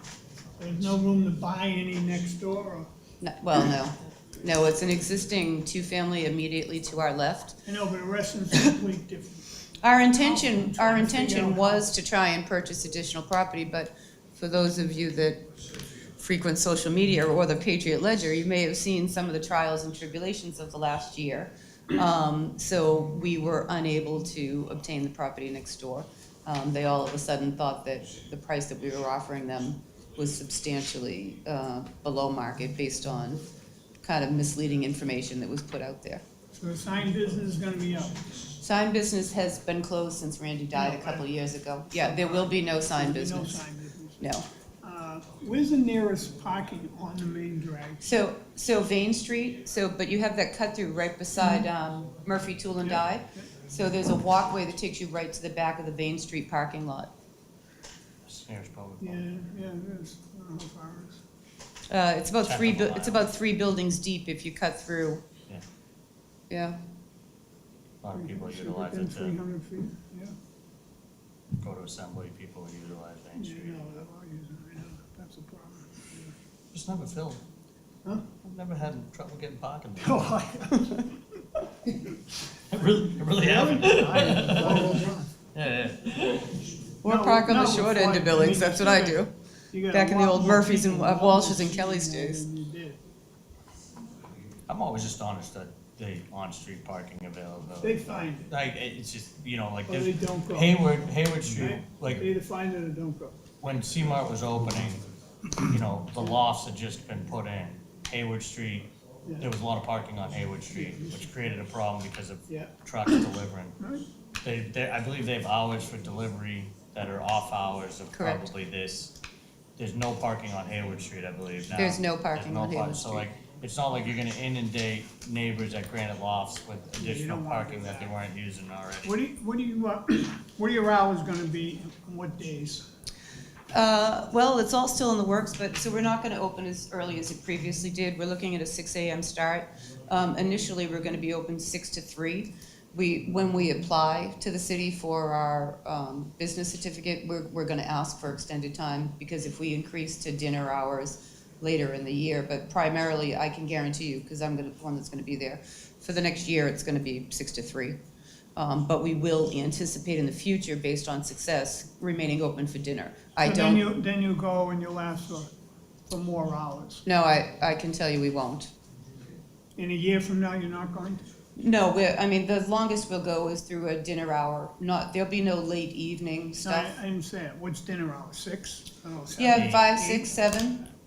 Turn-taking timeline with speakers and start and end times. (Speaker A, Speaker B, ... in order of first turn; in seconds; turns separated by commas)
Speaker A: 0.6-2.9, Speaker B: 3.2-7.6, Speaker A: 7.6-9.5, Speaker B: 9.8-15.5, Speaker A: 10.1-11.8, Speaker B: 16.2-33.4, Speaker B: 34.0-36.2, Speaker A: 36.5-38.2, Speaker B: 38.6-43.6, Speaker A: 40.7-41.3, Speaker A: 42.0-44.2, Speaker B: 44.2-44.5, Speaker A: 44.8-48.1, Speaker B: 48.0-57.1, Speaker A: 51.4-51.7, Speaker A: 52.8-53.5, Speaker C: 58.2-59.2, Speaker A: 59.0-61.2, Speaker B: 61.9-65.2, Speaker C: 62.4-63.3, Speaker B: 66.5-66.8, Speaker C: 68.0-69.4, Speaker A: 68.1-70.3, Speaker C: 71.6-73.9, Speaker A: 73.3-76.3, Speaker C: 76.7-77.4, Speaker A: 78.0-78.3, Speaker C: 78.4-80.3, Speaker A: 80.0-81.1, Speaker C: 82.7-86.7, Speaker A: 83.2-85.3, Speaker B: 87.0-89.3, Speaker A: 87.0-93.0, Speaker B: 89.9-92.4, Speaker C: 94.7-102.3, Speaker A: 97.8-98.5, Speaker A: 99.9-101.0, Speaker A: 101.5-103.4, Speaker C: 103.6-105.0, Speaker C: 105.6-108.9, Speaker A: 109.2-109.5, Speaker C: 109.4-113.8, Speaker A: 110.7-111.3, Speaker A: 112.5-113.2, Speaker A: 113.8-114.0, Speaker C: 114.4-119.1, Speaker B: 118.1-118.5, Speaker C: 119.8-129.1, Speaker B: 121.8-123.3, Speaker A: 127.0-128.1, Speaker A: 129.0-132.8, Speaker B: 133.7-158.0, Speaker B: 158.6-163.8, Speaker A: 163.4-165.5, Speaker A: 166.1-167.0, Speaker B: 167.0-168.7, Speaker A: 169.8-171.2, Speaker B: 171.6-176.9, Speaker A: 176.6-180.4, Speaker B: 179.4-180.8, Speaker C: 179.5-179.8